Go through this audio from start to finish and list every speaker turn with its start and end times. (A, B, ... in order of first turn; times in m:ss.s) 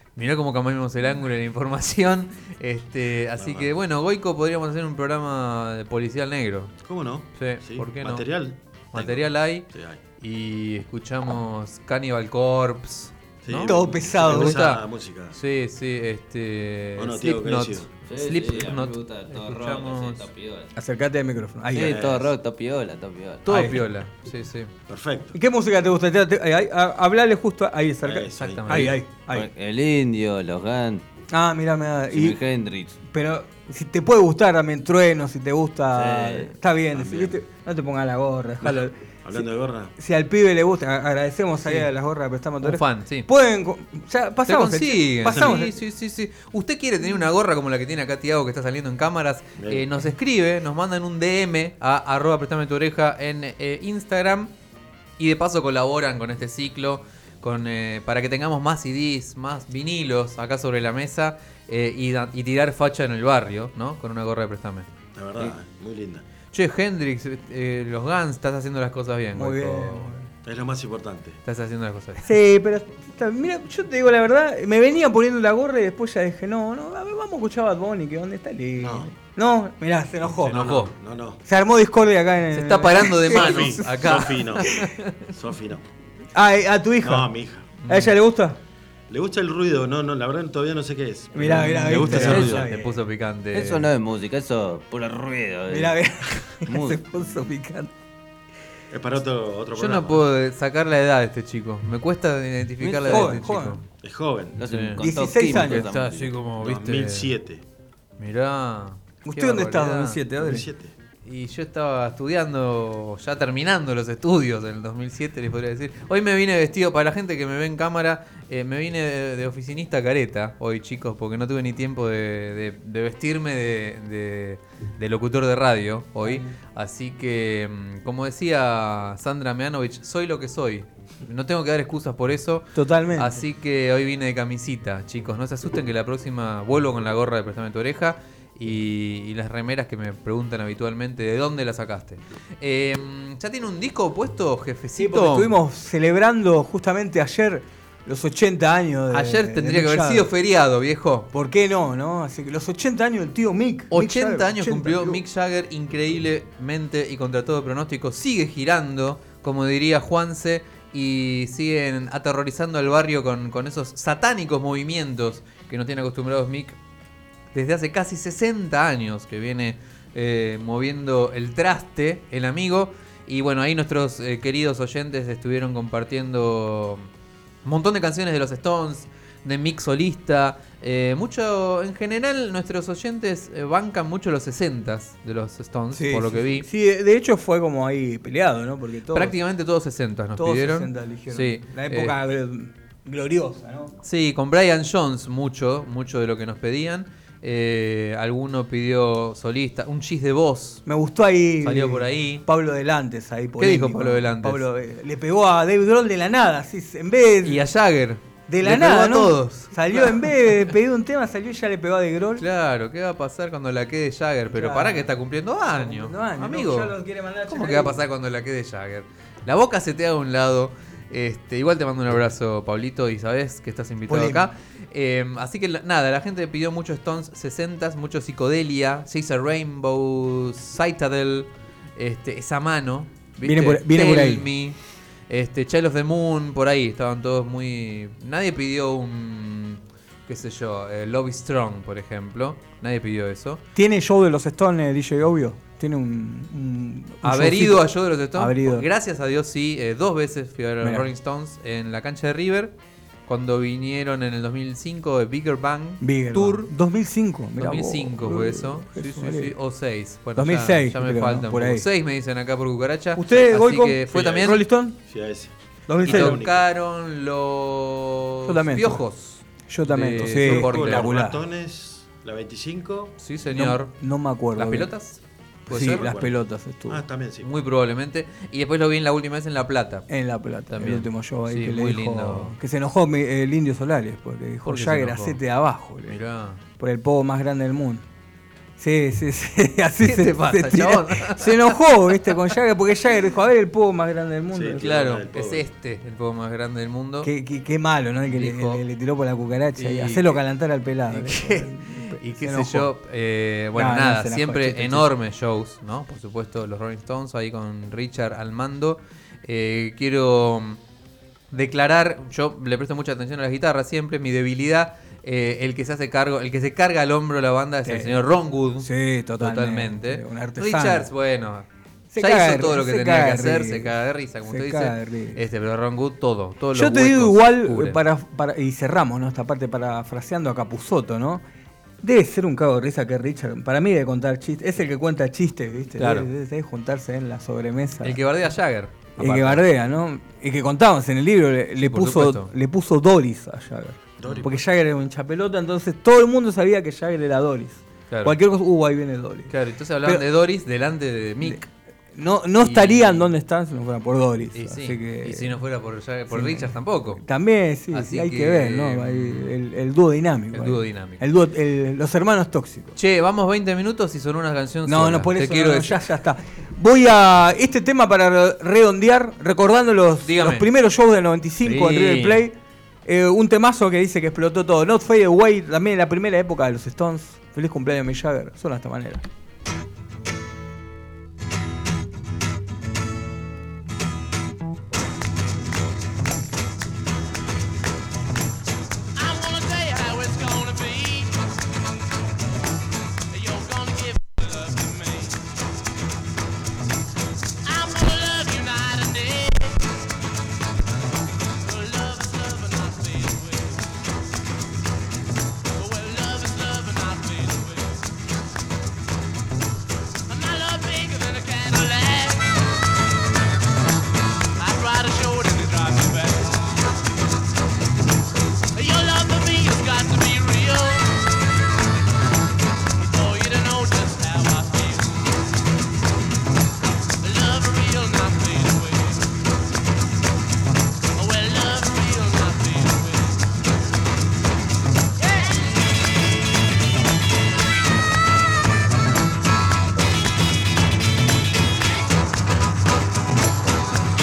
0:00.2-0:06.7 A
0:03.4-0:03.7 B
0:06.8-0:10.0 B
0:07.4-0:08.3 A
0:08.9-0:09.7 A
0:10.2-0:14.8 A
0:13.4-0:15.4 B
0:13.7-0:14.6 C
0:15.3-0:20.3 A
0:17.0-0:17.9 B
0:18.1-0:20.7 D
0:20.8-0:22.2 C
0:21.7-0:23.6 D
0:21.8-0:22.3 B
0:23.4-0:24.7 A
0:23.5-0:23.8 C
0:24.9-0:25.4 B
0:25.3-0:29.5 C
0:28.0-0:29.0 B
0:28.4-0:29.0 A
0:29.3-0:31.0 D
0:31.3-0:32.4 C
0:32.1-0:33.0 D
0:33.0-0:45.8 C
0:35.9-0:37.3 D
0:38.6-0:39.9 B
0:41.6-0:41.9 A
0:42.6-0:43.3 A
0:44.5-0:54.5 A
0:49.6-0:49.9 B
0:55.2-1:04.9 A
1:05.2-1:06.2 B
1:06.5-1:10.1 A
1:09.4-1:10.3 C
1:10.4-1:11.4 B
1:11.4-1:12.3 A
1:12.2-1:20.6 C
1:18.8-1:19.1 B
1:20.3-1:21.4 B
1:20.4-1:20.9 A
1:21.4-1:24.0 C
1:22.5-1:25.2 A
1:23.2-1:24.7 B
1:24.6-1:24.9 C
1:25.3-1:25.9 B
1:26.4-1:27.3 C
1:27.0-1:27.7 B
1:27.8-1:28.1 A
1:27.9-1:28.6 C
1:29.1-1:32.7 B
1:31.3-1:32.9 C
1:31.4-1:33.9 A
1:32.1-1:32.6 D
1:33.5-1:36.0 D
1:35.7-1:37.9 C
1:36.7-1:37.4 D
1:38.9-1:40.2 B
1:39.8-1:43.8 A
1:42.8-1:43.8 C
1:44.0-1:44.7 B
1:44.6-1:46.3 D
1:44.6-1:47.3 A
1:45.0-1:45.9 C
1:46.6-1:47.6 B
1:48.2-1:50.2 A
1:49.2-1:50.7 C
1:50.4-1:51.0 B
1:51.2-2:25.6 A
2:06.2-2:06.5 C
2:12.8-2:13.4 C
2:25.0-2:30.3 C
2:29.1-2:31.3 A
2:31.3-2:35.2 C
2:33.9-2:46.8 A
2:47.5-2:57.1 A
2:57.6-3:06.7 A
3:05.9-3:09.4 C
3:09.1-3:12.2 A
3:10.4-3:13.9 C
3:14.0-3:20.8 A
3:20.9-3:27.6 C
3:21.6-3:22.4 A
3:23.6-3:24.6 A
3:27.4-3:30.8 A
3:28.5-3:32.4 C
3:32.4-3:36.9 A
3:34.5-3:35.1 C
3:35.7-3:38.0 C
3:37.5-3:54.8 A
3:44.1-3:44.5 C
3:53.4-3:54.5 C
3:55.3-4:03.6 A
4:03.8-4:08.8 C
4:07.2-4:12.7 A
4:10.8-4:11.1 C
4:13.3-4:16.7 A
4:16.0-4:19.5 C
4:17.6-4:24.6 A
4:20.4-4:21.9 C
4:23.2-4:25.0 C
4:24.1-4:26.7 B
4:25.9-4:26.4 C
4:26.0-4:31.2 A
4:28.4-4:29.0 C
4:29.7-4:31.4 C
4:30.2-4:33.2 B
4:33.2-4:33.9 A
4:33.5-4:34.9 C
4:34.6-4:36.2 A
4:35.7-4:37.0 C
4:35.7-4:36.3 B
4:36.9-4:37.5 B
4:37.4-4:40.1 A
4:40.1-4:46.2 C
4:40.7-4:42.6 A
4:44.6-4:45.4 A
4:46.1-4:46.6 A
4:46.8-4:48.0 C
4:48.8-4:54.9 C
4:50.0-4:52.4 A
4:54.5-4:55.7 B
4:54.8-4:57.3 A
4:57.2-5:02.9 C
4:58.3-4:58.8 A
4:59.8-5:00.4 A
5:01.1-5:10.8 A
5:03.8-5:05.1 C
5:11.5-5:21.7 A
5:17.8-5:18.2 C
5:18.8-5:21.1 C
5:22.1-5:23.9 C
5:22.2-5:28.0 A
5:24.5-5:25.4 C
5:26.7-5:31.4 C
5:32.0-5:38.2 C
5:36.0-5:36.3 A
5:38.0-5:39.6 A
5:39.2-5:49.5 C
5:41.8-5:42.5 A
5:44.2-5:44.5 B
5:48.1-5:48.4 A
5:49.5-5:51.7 A
5:52.2-5:55.6 C
5:52.6-5:53.3 A
5:54.6-5:57.2 A
5:56.3-6:03.0 C
5:57.9-5:59.6 A
6:00.5-6:01.2 A
6:03.0-6:06.1 A
6:04.9-6:12.6 C
6:10.2-6:10.7 A
6:11.6-6:12.5 A
6:13.1-6:19.2 C
6:29.2-6:31.3 E
6:33.3-6:35.4 E
6:37.6-6:39.8 E
6:41.6-6:43.8 E
6:45.8-6:48.0 E
6:50.3-6:52.5 E
6:54.6-6:56.7 E
6:58.8-7:01.1 E
7:03.0-7:05.2 E
7:07.2-7:09.3 E
7:11.2-7:13.4 E